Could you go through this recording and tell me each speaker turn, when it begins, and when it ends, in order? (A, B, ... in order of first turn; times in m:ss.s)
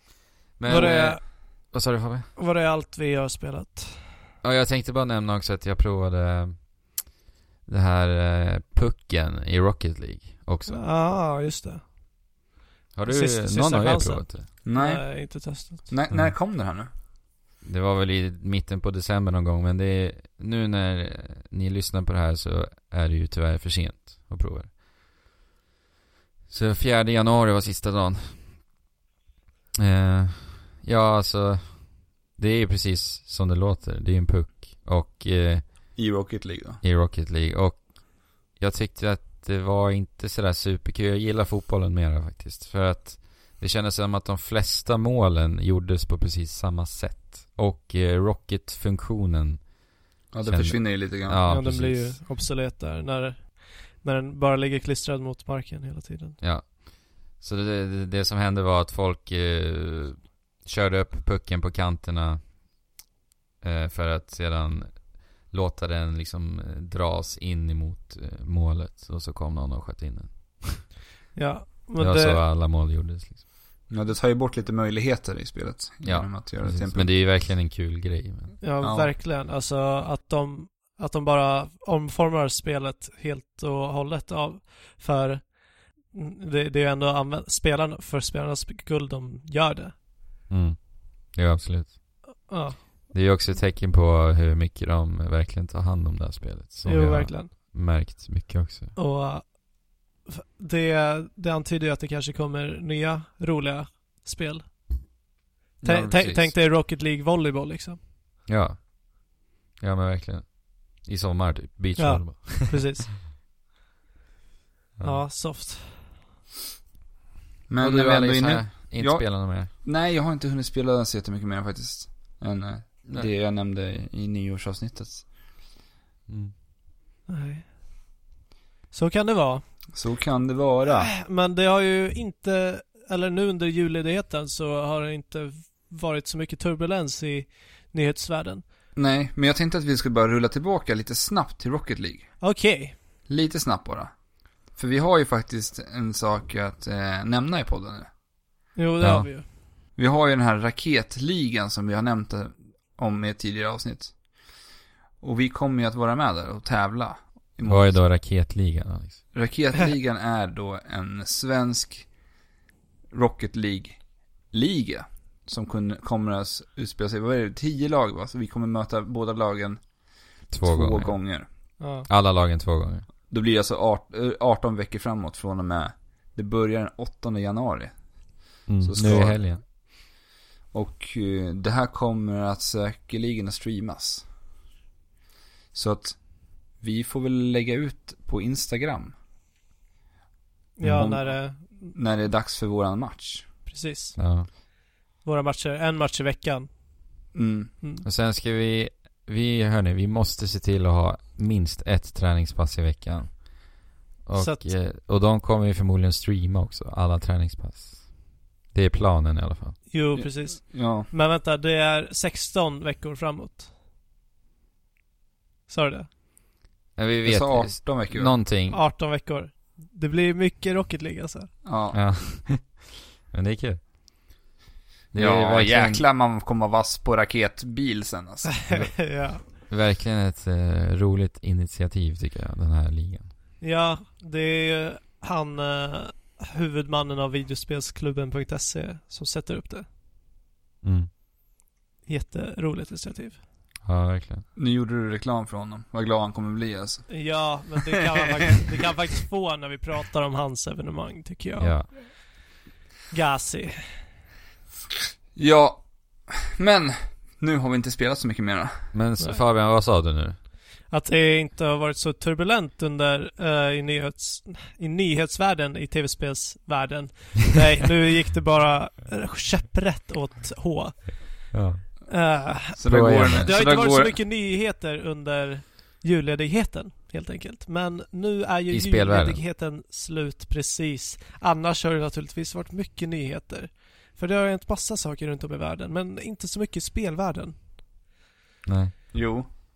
0:00.6-0:02.3 A
0:00.7-0:01.7 B
0:02.4-0:04.2 B
0:04.4-0:07.1 A
0:07.7-0:11.0 A
0:10.7-0:11.9 B
0:12.9-0:14.5 A
0:13.1-0:15.9 B
0:14.6-0:16.9 C
0:17.6-0:24.8 A
0:26.5-0:28.6 A
0:29.8-0:35.8 A
0:36.0-0:36.8 C
0:36.8-0:49.8 A
0:50.3-0:51.4 C
0:50.4-0:52.2 A
0:51.5-0:56.4 B
0:56.4-1:02.5 A
1:03.6-1:10.9 A
1:11.4-1:12.4 B
1:12.0-1:13.4 A
1:13.9-1:17.2 C
1:16.0-1:18.6 A
1:18.6-1:30.0 B
1:18.8-1:19.1 C
1:30.5-1:32.2 A
1:32.5-1:32.8 B
1:33.1-1:39.0 A
1:36.8-1:37.5 B
1:39.0-1:39.6 B
1:40.2-1:45.0 B
1:45.8-1:46.6 A
1:45.8-1:48.0 B
1:48.5-1:53.0 A
1:52.0-1:53.2 B
1:55.0-1:55.2 A
1:55.0-1:56.1 B
1:57.7-2:05.3 C
1:57.8-1:59.7 A
2:06.3-2:06.5 A
2:07.3-2:07.8 B
2:08.9-2:09.6 B
2:09.9-2:11.1 C
2:10.9-2:18.6 B
2:19.0-2:22.3 C
2:22.4-2:23.0 B
2:23.3-2:24.1 C
2:24.7-2:28.1 C
2:28.8-2:29.5 B
2:29.0-2:29.3 A
2:30.0-2:34.2 C
2:35.2-2:38.0 C
2:37.6-2:39.2 A
2:39.3-2:42.1 C
2:43.1-2:49.9 C
2:50.4-2:51.5 C
2:50.5-2:51.4 A
2:51.8-2:52.1 B
2:52.1-2:53.1 A
2:53.3-2:58.0 C
2:58.7-2:59.6 A
2:58.8-3:00.0 C
3:00.7-3:04.3 C
3:05.7-3:09.2 C
3:10.8-3:11.9 B
3:10.9-3:13.5 C
3:13.7-3:14.6 B
3:14.2-3:14.5 A
3:15.2-3:16.7 B
3:17.3-3:17.7 C
3:18.0-3:29.8 A
3:24.4-3:24.7 B
3:29.9-3:33.7 B
3:30.2-3:31.1 C
3:35.7-3:36.1 B
3:37.0-3:38.8 A
3:37.2-3:38.4 C
3:38.7-3:41.5 B
3:41.6-3:42.0 C
3:41.9-3:43.9 A
3:45.1-3:46.0 A
3:45.1-3:48.8 C
3:48.6-3:49.4 B
3:48.7-3:53.4 A
3:53.6-3:59.9 B
4:00.8-4:01.1 A
4:02.1-4:03.4 B
4:03.8-4:04.4 A
4:04.6-4:07.7 C
4:07.1-4:12.2 B
4:11.6-4:11.9 A
4:13.1-4:14.0 B
4:15.4-4:18.9 C
4:18.9-4:20.4 A
4:20.9-4:31.5 B
4:31.5-4:31.9 A
4:32.1-4:47.6 B
4:32.7-4:34.2 C
4:32.8-4:33.6 A
4:38.7-4:39.4 A
4:48.7-4:49.5 A
4:49.1-4:49.5 C